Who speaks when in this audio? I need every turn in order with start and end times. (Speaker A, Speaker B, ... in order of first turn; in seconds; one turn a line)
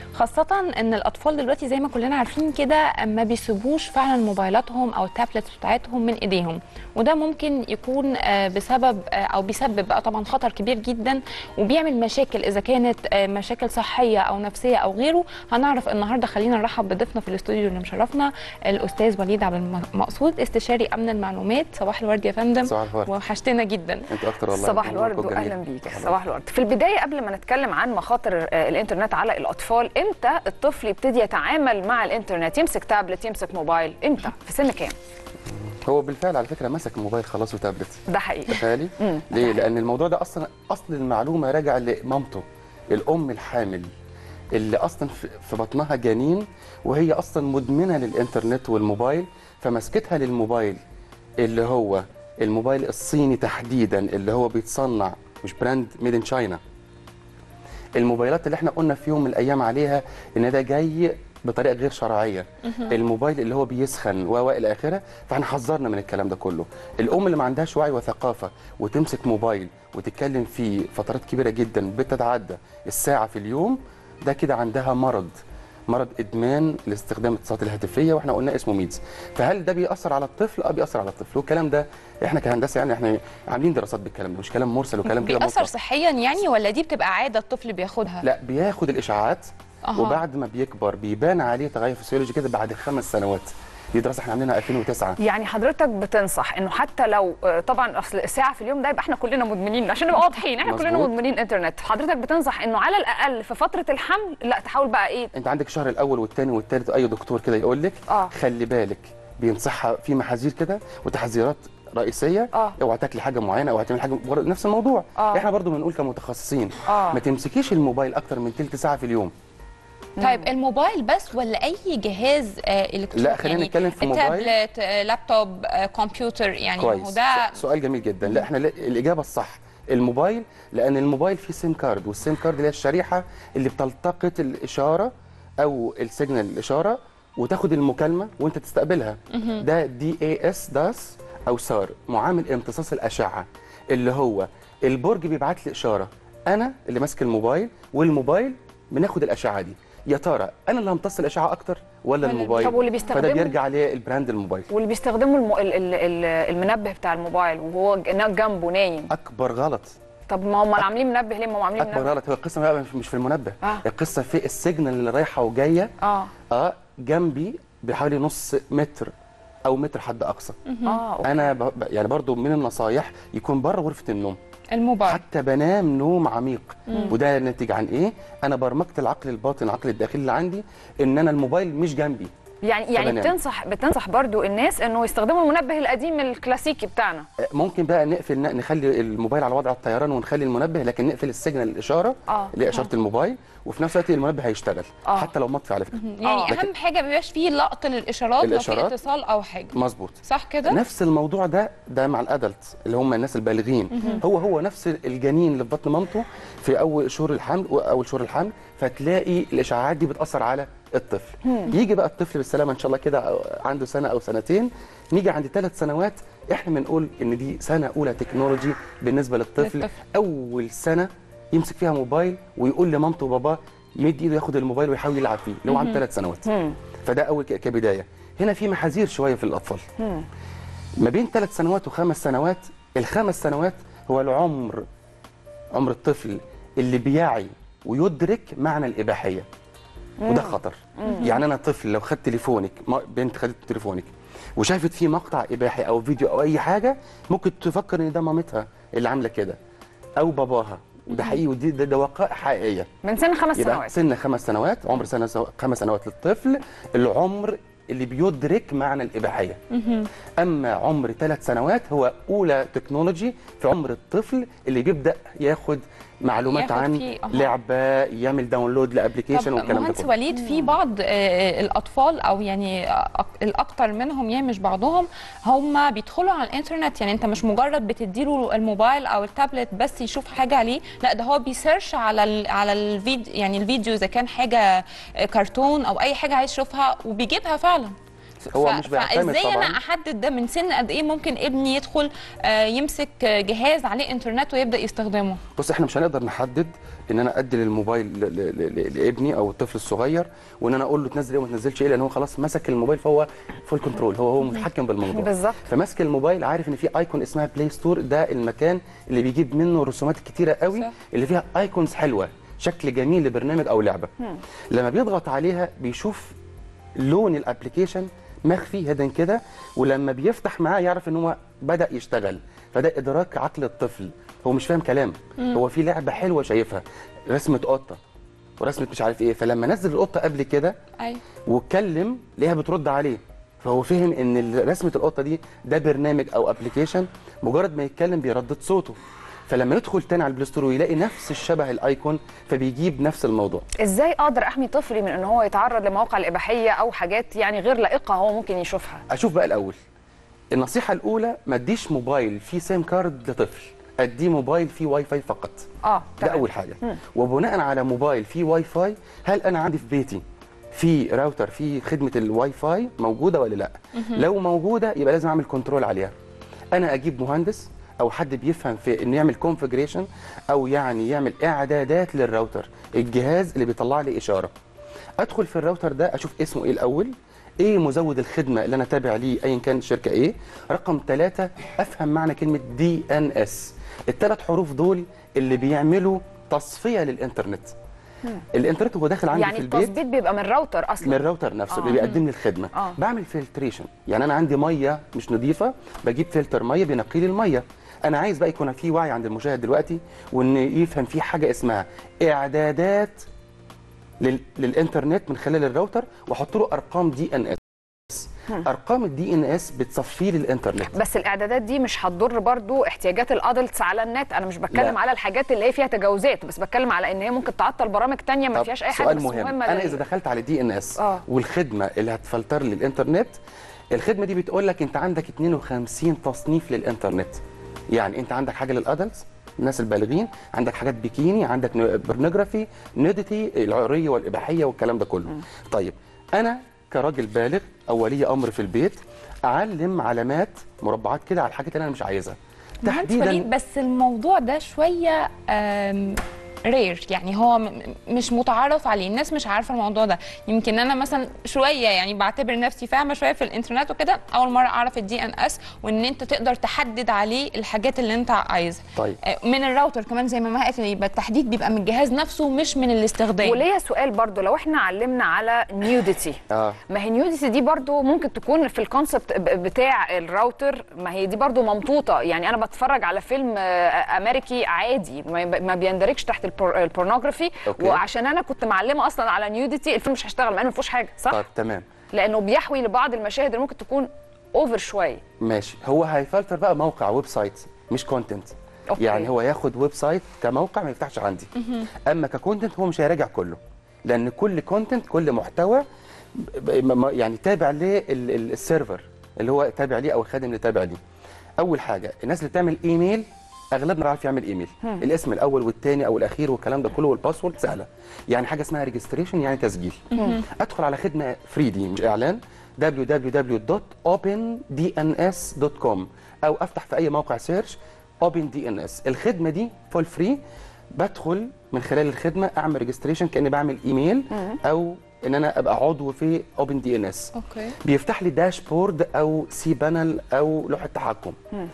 Speaker A: 0.1-24.1
Speaker B: 22.6-23.1
Speaker B: 24.1-26.2
Speaker C: 24.5-35.0
Speaker B: 35.8-43.9
Speaker C: 38.1-39.6
Speaker B: 44.5-50.8
Speaker B: 51.4-56.6
Speaker B: 58.0-75.4
Speaker B: 75.9-85.7
Speaker A: 85.0-88.3
Speaker B: 88.2-95.2
Speaker A: 89.8-90.2
Speaker C: 95.2-105.3
Speaker B: 100.6-101.1
Speaker B: 105.3-119.3
Speaker C: 115.2-115.5
Speaker C: 116.9-117.2
Speaker C: 120.2-120.5
Speaker A: 120.2-127.6
Speaker B: 123.1-124.5
Speaker B: 126.8-154.7
Speaker A: 139.3-139.6
Speaker A: 152.2-153.2
Speaker C: 152.6-153.6
Speaker C: 154.7-159.1
Speaker B: 159.1-159.9
Speaker C: 160.3-162.1
Speaker B: 161.8-165.9
Speaker C: 166.0-166.3
Speaker B: 166.5-169.1
Speaker B: 169.7-170.6
Speaker A: 170.7-171.0
Speaker C: 170.8-171.5
Speaker B: 171.2-174.4
Speaker A: 174.7-175.2
Speaker B: 175.1-182.3
Speaker A: 176.9-177.2
Speaker C: 182.6-187.3
Speaker B: 182.9-183.3
Speaker B: 187.4-196.7
Speaker C: 192.3-192.9
Speaker C: 195.1-195.3
Speaker A: 195.9-200.8
Speaker C: 196.2-196.6
Speaker B: 198.4-199.0
Speaker B: 199.7-226.5
Speaker A: 203.9-204.2
Speaker A: 219.6-219.9
Speaker A: 225.7-226.0
Speaker C: 226.5-226.8
Speaker B: 227.1-229.8
Speaker C: 230.0-230.3
Speaker B: 231.0-234.8
Speaker B: 235.7-239.4
Speaker C: 240.2-241.4
Speaker B: 240.3-249.6
Speaker B: 250.2-252.9
Speaker A: 251.1-251.4
Speaker C: 253.0-253.9
Speaker B: 253.6-259.6
Speaker A: 259.7-260.1
Speaker B: 260.4-270.1
Speaker A: 266.5-267.5
Speaker A: 269.3-295.4
Speaker C: 270.4-270.7
Speaker B: 288.5-289.8
Speaker B: 295.6-314.1
Speaker C: 305.0-305.7
Speaker B: 314.7-316.4
Speaker B: 317.0-328.0
Speaker B: 328.6-330.8
Speaker B: 331.5-343.6
Speaker C: 343.8-349.0
Speaker B: 349.1-349.8
Speaker B: 350.5-355.6
Speaker C: 355.8-357.0
Speaker B: 356.2-360.2
Speaker B: 360.7-366.1
Speaker A: 364.0-364.2
Speaker B: 366.7-374.5
Speaker B: 375.2-387.8
Speaker B: 388.5-390.0
Speaker C: 389.3-392.1
Speaker B: 391.0-403.3
Speaker A: 391.9-392.2
Speaker B: 404.2-410.9
Speaker C: 410.9-420.0
Speaker B: 414.7-415.0
Speaker B: 418.5-423.4
Speaker C: 421.0-421.2
Speaker B: 423.9-427.4
Speaker B: 427.9-443.5
Speaker A: 442.8-463.6
Speaker C: 463.4-481.4
Speaker B: 466.5-466.8
Speaker B: 477.7-478.0
Speaker B: 481.3-481.9
Speaker C: 482.1-485.2
Speaker B: 485.4-491.5
Speaker C: 488.9-489.3
Speaker B: 492.1-495.8
Speaker B: 496.4-501.0
Speaker B: 501.6-520.4
Speaker B: 521.0-527.3
Speaker A: 527.3-527.8
Speaker B: 527.8-531.4